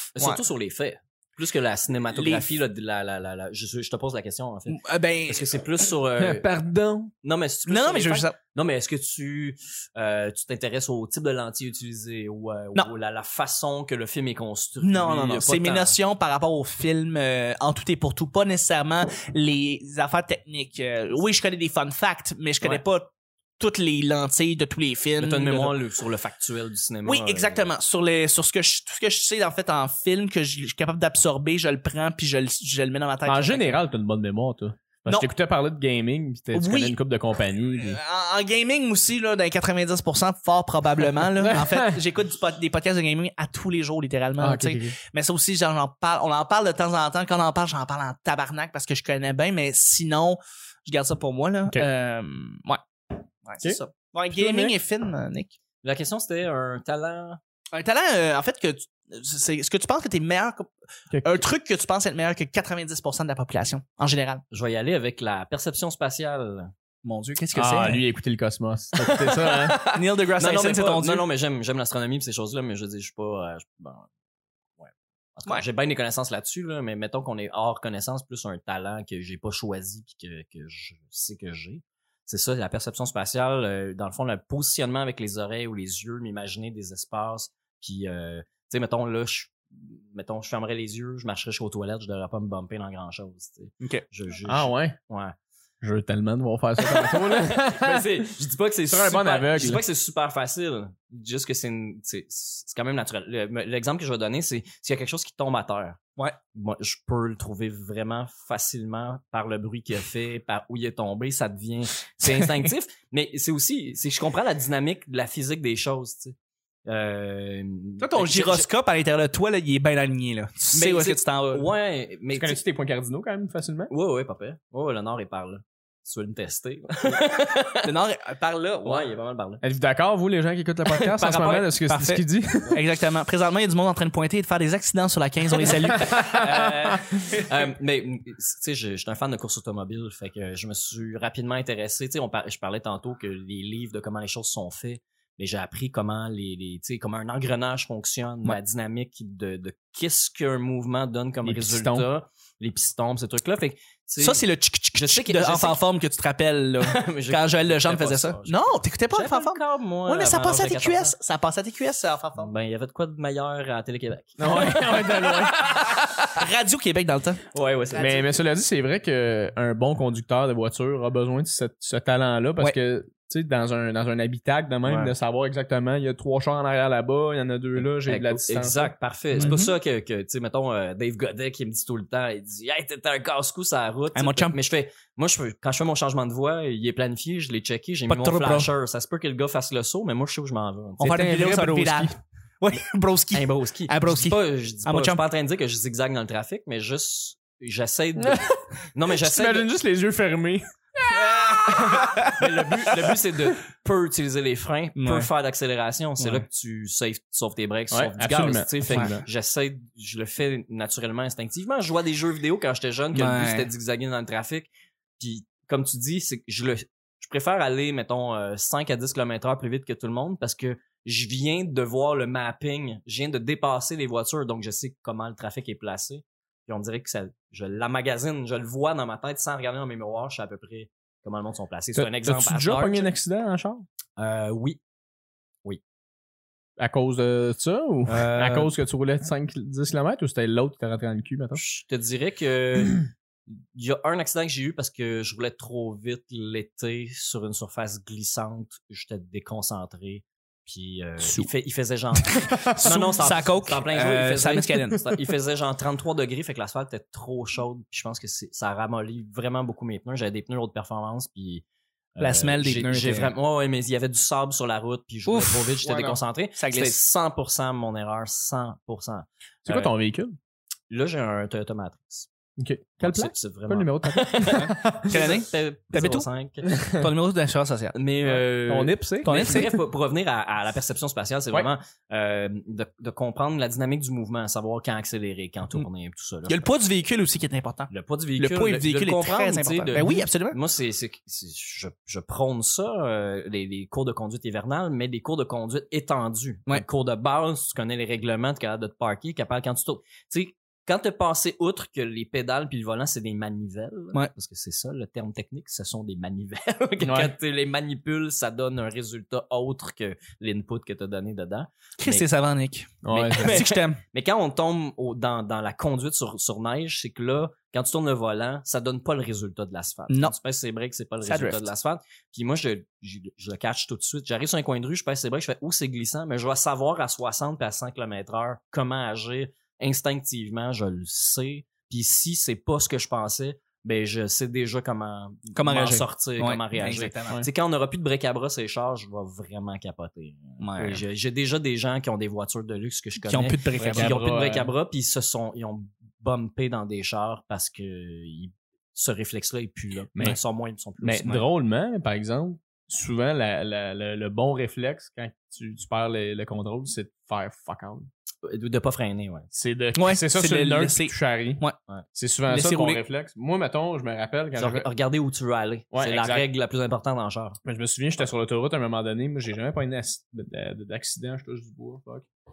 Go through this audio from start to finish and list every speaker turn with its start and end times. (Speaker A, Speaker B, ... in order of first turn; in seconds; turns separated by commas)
Speaker A: 0.2-6.5, Speaker B: 2.1-2.5, Speaker B: 4.7-5.7, Speaker C: 6.2-7.1, Speaker A: 7.2-15.9, Speaker B: 7.7-8.4, Speaker B: 14.8-25.8, Speaker A: 25.2-27.7, Speaker B: 27.1-33.8, Speaker C: 33.2-38.0, Speaker B: 36.5-37.0, Speaker B: 37.8-55.6, Speaker C: 41.4-42.0, Speaker C: 44.4-45.0, Speaker C: 54.3-54.8, Speaker A: 55.8-57.4, Speaker B: 57.7-60.7, Speaker C: 61.1-61.4, Speaker B: 61.2-64.4, Speaker A: 64.5-66.7, Speaker B: 67.0-68.0, Speaker C: 67.5-69.8, Speaker A: 69.0-74.1, Speaker B: 69.9-71.2, Speaker A: 74.8-95.3, Speaker C: 94.5-95.0, Speaker C: 95.8-98.3, Speaker A: 96.8-106.0, Speaker C: 98.9-99.8, Speaker A: 106.5-118.7, Speaker B: 118.0-121.7, Speaker A: 120.7-122.6, Speaker C: 122.3-123.9, Speaker A: 123.9-127.9, Speaker B: 127.8-129.1, Speaker A: 128.8-129.6, Speaker C: 129.6-132.8, Speaker A: 130.9-131.7, Speaker B: 131.9-136.2, Speaker A: 135.7-155.8, Speaker C: 136.1-136.7, Speaker C: 151.4-152.1, Speaker B: 154.2-162.5, Speaker A: 156.8-161.1, Speaker A: 162.4-165.3, Speaker C: 164.4-165.8, Speaker B: 164.8-167.4, Speaker A: 167.5-168.3, Speaker C: 168.0-179.6, Speaker A: 174.8-175.2, Speaker A: 177.8-191.1, Speaker B: 179.4-179.7, Speaker B: 184.2-184.6, Speaker B: 188.1-188.7, Speaker B: 191.0-195.2, Speaker C: 191.0-192.2, Speaker A: 193.3-199.7, Speaker C: 198.2-198.4, Speaker C: 199.2-202.3, Speaker A: 201.7-233.1, Speaker B: 202.0-202.3, Speaker B: 205.0-205.3, Speaker B: 206.2-206.4, Speaker C: 207.9-209.3, Speaker B: 213.1-213.7, Speaker C: 231.9-233.9, Speaker A: 234.2-234.8, Speaker C: 236.8-241.6, Speaker A: 238.1-238.7, Speaker A: 241.6-261.6, Speaker B: 251.2-251.5, Speaker B: 252.7-255.1, Speaker C: 252.9-253.1, Speaker A: 262.2-269.9, Speaker B: 262.2-263.3, Speaker B: 265.3-267.0, Speaker C: 269.7-270.4, Speaker A: 270.9-272.3, Speaker C: 272.6-275.2, Speaker A: 273.0-276.8, Speaker B: 274.6-276.3, Speaker C: 276.7-277.1, Speaker B: 276.9-277.9, Speaker A: 277.9-286.7, Speaker C: 278.2-279.8, Speaker B: 279.2-279.8, Speaker B: 286.5-290.6, Speaker A: 287.9-312.3, Speaker C: 307.0-307.4, Speaker B: 312.0-314.0, Speaker C: 313.0-313.6, Speaker A: 313.1-351.4, Speaker B: 320.1-320.3, Speaker B: 321.2-321.7, Speaker B: 335.6-337.4, Speaker B: 340.6-341.0, Speaker B: 343.2-344.2, Speaker C: 343.7-344.7, Speaker C: 351.0-358.1, Speaker A: 358.4-359.5, Speaker C: 359.5-361.6, Speaker B: 360.0-361.8, Speaker C: 362.1-364.9, Speaker B: 362.5-363.0, Speaker A: 364.6-367.6, Speaker C: 365.9-366.5, Speaker C: 367.7-372.3